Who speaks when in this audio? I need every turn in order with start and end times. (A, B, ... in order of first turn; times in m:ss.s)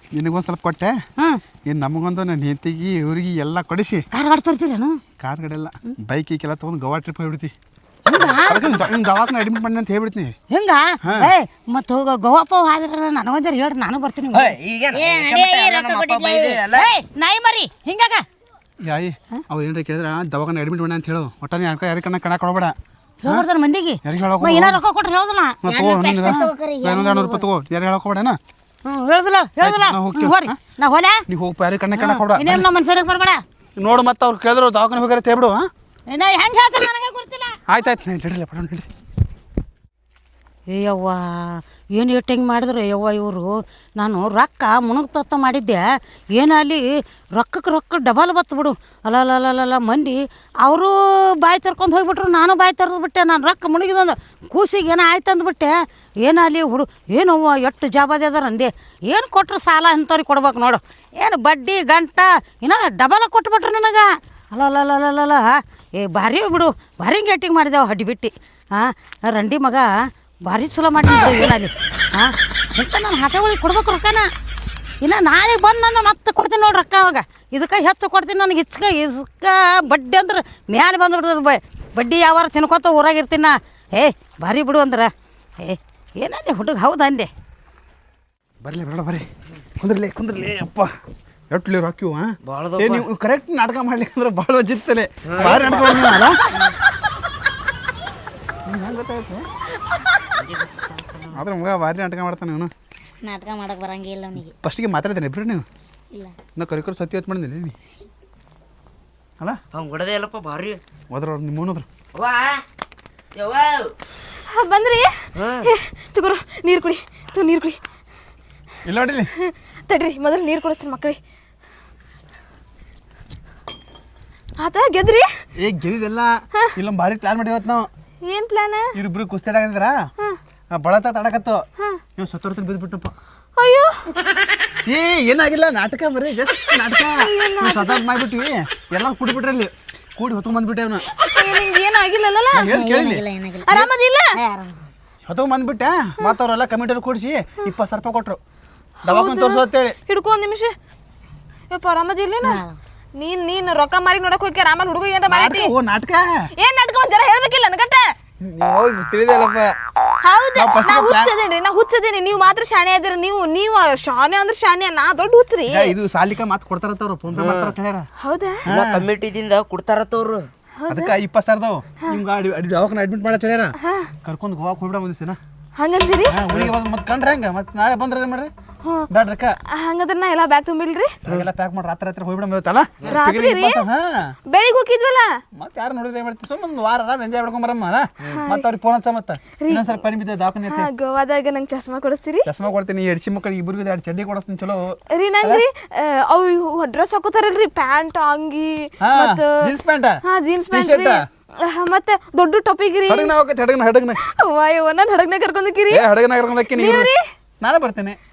0:00.1-0:01.0 A
0:01.6-0:04.0 A
0:04.1-0:05.0 B
0:05.2-0:07.5 A
0:08.1-0:08.8 B
0:08.2-0:10.4 A
0:10.5-0:14.6 B
0:11.0-0:11.3 A
0:14.4-0:16.8 C
0:14.9-0:16.6 D
0:16.3-0:18.2 B
0:18.8-0:23.5 A
0:23.2-0:25.6 B
0:24.0-0:24.8 A
0:25.6-0:28.4 A
0:25.6-0:27.4 D
0:28.8-0:31.2 B
0:29.6-0:30.6 A
0:31.3-0:32.7 A
0:32.0-0:33.4 B
0:33.8-0:35.7 A
0:36.1-0:37.6 B
0:37.7-0:38.9 A
0:40.7-0:45.8 B
0:46.4-0:46.8 B
0:47.4-0:55.7 B
0:56.2-1:09.9 B
1:10.5-1:14.2 B
1:15.0-1:25.1 B
1:25.6-1:27.3 B
1:28.6-1:29.3 A
1:29.8-1:30.9 A
1:31.5-1:36.4 A
1:32.5-1:33.0 C
1:38.7-1:39.5 A
1:40.4-1:41.3 C
1:41.3-1:42.7 A
1:43.2-1:44.5 D
1:44.6-1:45.6 A
1:46.6-1:47.8 A
1:49.8-1:50.8 C
1:51.1-1:51.9 A
1:52.2-1:52.6 C
1:53.4-1:53.9 C
1:54.5-1:55.1 E
1:55.6-1:57.8 E
1:58.8-1:59.3 A
1:59.4-2:01.2 E
2:04.6-2:05.3 E
2:05.6-2:07.9 A
2:08.2-2:08.9 E
2:08.9-2:10.0 A
2:10.7-2:11.6 A
2:12.2-2:13.1 A
2:13.6-2:14.0 E
2:14.8-2:21.0 A
2:17.2-2:18.0 E
2:21.2-2:22.7 E
2:22.5-2:23.2 A
2:22.6-2:23.9 D
2:23.6-2:24.3 E
2:24.4-2:24.8 D
2:25.3-2:28.4 A
2:29.1-2:30.0 A
2:29.1-2:30.7 E
2:31.7-2:32.6 E
2:32.4-2:32.8 D
2:33.2-2:35.7 E
2:35.3-2:36.3 A
2:36.6-2:38.1 E
2:38.4-2:39.7 A
2:40.2-2:45.9 E
2:40.6-2:41.3 A
2:45.7-2:48.1 A
2:47.4-2:47.7 C
2:48.2-2:48.7 E
2:48.7-2:49.1 A
2:48.7-2:50.4 C
2:50.8-2:51.2 E
2:50.9-2:55.4 A
2:53.8-2:54.1 E
2:55.8-2:56.4 E
2:56.3-2:58.5 A
2:59.1-2:59.6 A
2:59.7-3:01.2 E
3:01.2-3:04.3 A
3:03.0-3:03.8 E
3:04.5-3:05.3 E
3:05.6-3:10.9 A
3:08.2-3:08.7 E
3:09.6-3:10.0 E
3:10.7-3:12.5 E
3:12.4-3:15.6 A
3:15.2-3:19.7 E
3:19.0-3:21.2 A
3:20.3-3:23.3 E
3:23.1-3:24.2 A
3:24.3-3:26.1 E
3:25.9-3:27.1 A
3:26.7-3:27.2 E
3:27.6-3:28.2 A